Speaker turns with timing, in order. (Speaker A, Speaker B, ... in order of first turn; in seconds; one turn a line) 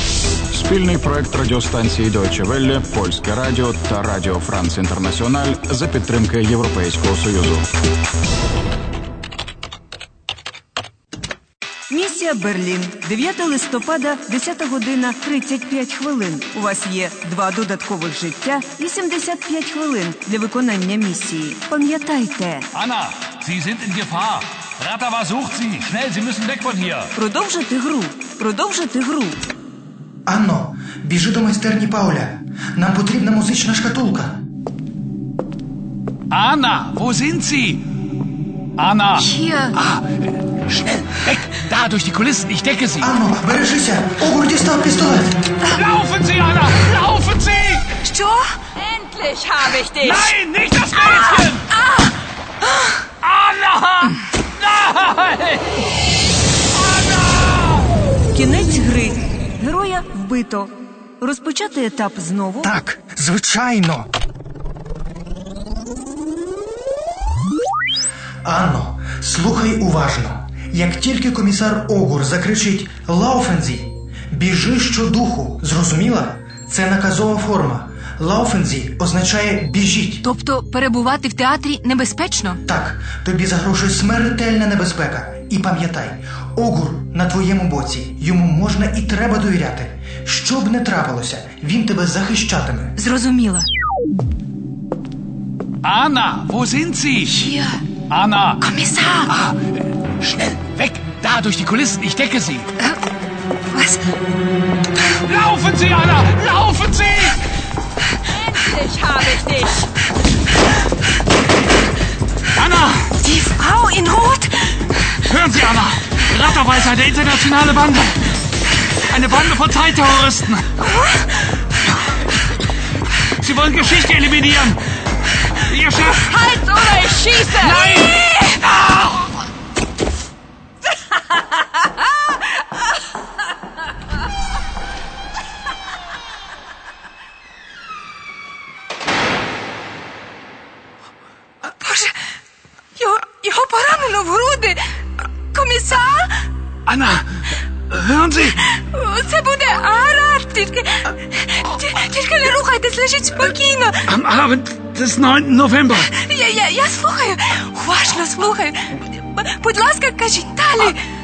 Speaker A: 0.5-7.7
Speaker B: 11.9-22.7
Speaker C: 22.7-27.1
Speaker B: 27.1-29.4
Speaker D: 30.2-34.4
Speaker C: 36.3-37.8
Speaker C: 38.8-43.1
Speaker E: 39.2-39.7
Speaker D: 43.0-45.3
Speaker C: 45.7-47.9
Speaker E: 48.0-48.5
Speaker F: 48.8-50.4
Speaker C: 50.0-51.7
Speaker C: 53.2-55.7
Speaker B: 58.3-62.7
Speaker D: 62.6-64.1
Speaker D: 68.4-80.2
Speaker E: 80.2-82.6
Speaker D: 82.6-92.9
Speaker E: 93.0-93.7
Speaker C: 95.8-97.5
Speaker E: 97.4-97.8
Speaker C: 98.1-98.6
Speaker E: 98.6-99.3
Speaker C: 99.3-102.7
Speaker E: 103.7-104.0
Speaker C: 105.2-107.4
Speaker F: 108.3-109.9
Speaker C: 112.5-113.1
Speaker E: 113.2-114.9
Speaker C: 115.2-118.2
Speaker C: 119.1-120.7
Speaker E: 120.8-121.3
Speaker C: 123.4-124.8
Speaker C: 125.6-126.5
Speaker F: 126.3-127.8
Speaker C: 127.8-128.1
Speaker E: 128.0-128.3
Speaker E: 141.7-142.2
Speaker E: 142.9-144.9
Speaker E: 145.5-146.3
Speaker C: 146.8-148.6
Speaker E: 148.6-154.0
Speaker C: 154.1-156.1
Speaker E: 156.1-161.0